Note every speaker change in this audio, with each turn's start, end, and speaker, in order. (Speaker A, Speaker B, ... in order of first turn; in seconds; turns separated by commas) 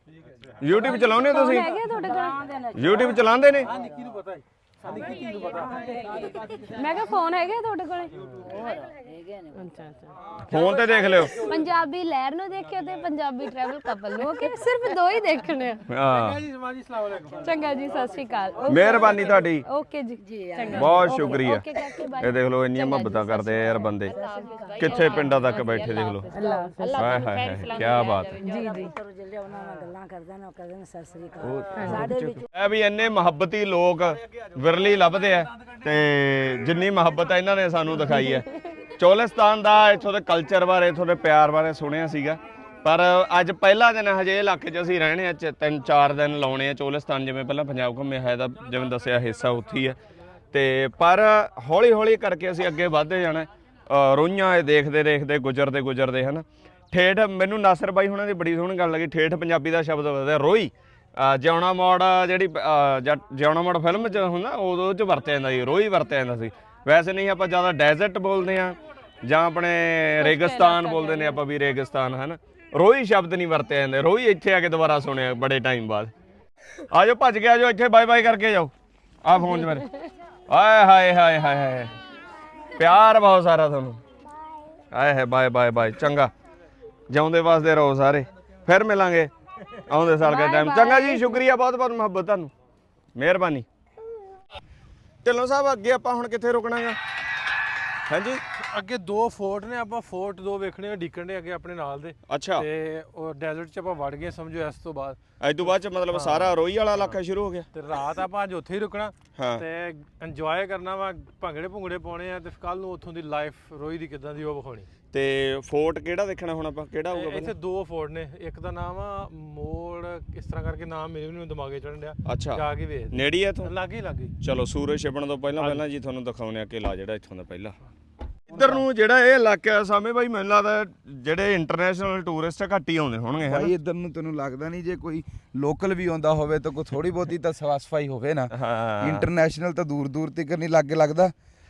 Speaker A: 0.6-1.7, Speaker B: 0.7-2.4, Speaker C: 1.5-3.9, Speaker A: 2.8-3.7, Speaker D: 3.6-6.7, Speaker C: 5.1-6.5, Speaker B: 6.7-8.2, Speaker C: 8.4-9.7, Speaker B: 9.6-15.9, Speaker A: 10.5-11.4, Speaker D: 10.7-11.6, Speaker A: 15.9-16.4, Speaker D: 16.0-17.7, Speaker B: 17.4-28.9, Speaker D: 18.7-19.2, Speaker A: 18.7-19.6, Speaker C: 20.2-21.8, Speaker A: 20.7-21.6, Speaker A: 22.2-24.2, Speaker C: 24.1-25.4, Speaker A: 24.8-26.3, Speaker C: 26.3-32.5, Speaker A: 27.0-28.4, Speaker A: 31.4-38.5, Speaker B: 31.8-32.1, Speaker B: 38.1-38.5, Speaker A: 39.0-50.0, Speaker A: 50.5-76.1, Speaker B: 70.2-71.4, Speaker A: 76.9-79.9, Speaker B: 79.5-79.9, Speaker A: 80.5-81.9, Speaker A: 82.8-84.0, Speaker A: 84.9-86.3, Speaker A: 87.1-92.5, Speaker B: 90.2-91.4, Speaker A: 93.2-93.7, Speaker A: 95.2-97.0, Speaker A: 98.1-98.4, Speaker D: 98.6-107.2, Speaker A: 102.3-102.7, Speaker A: 105.4-107.7, Speaker D: 107.7-114.9, Speaker A: 109.4-109.7, Speaker A: 115.1-117.5, Speaker D: 117.1-124.3, Speaker A: 122.2-123.7, Speaker A: 124.4-127.8, Speaker D: 125.6-125.8, Speaker A: 128.5-133.7, Speaker D: 128.5-128.8, Speaker E: 133.4-141.3, Speaker A: 138.5-139.3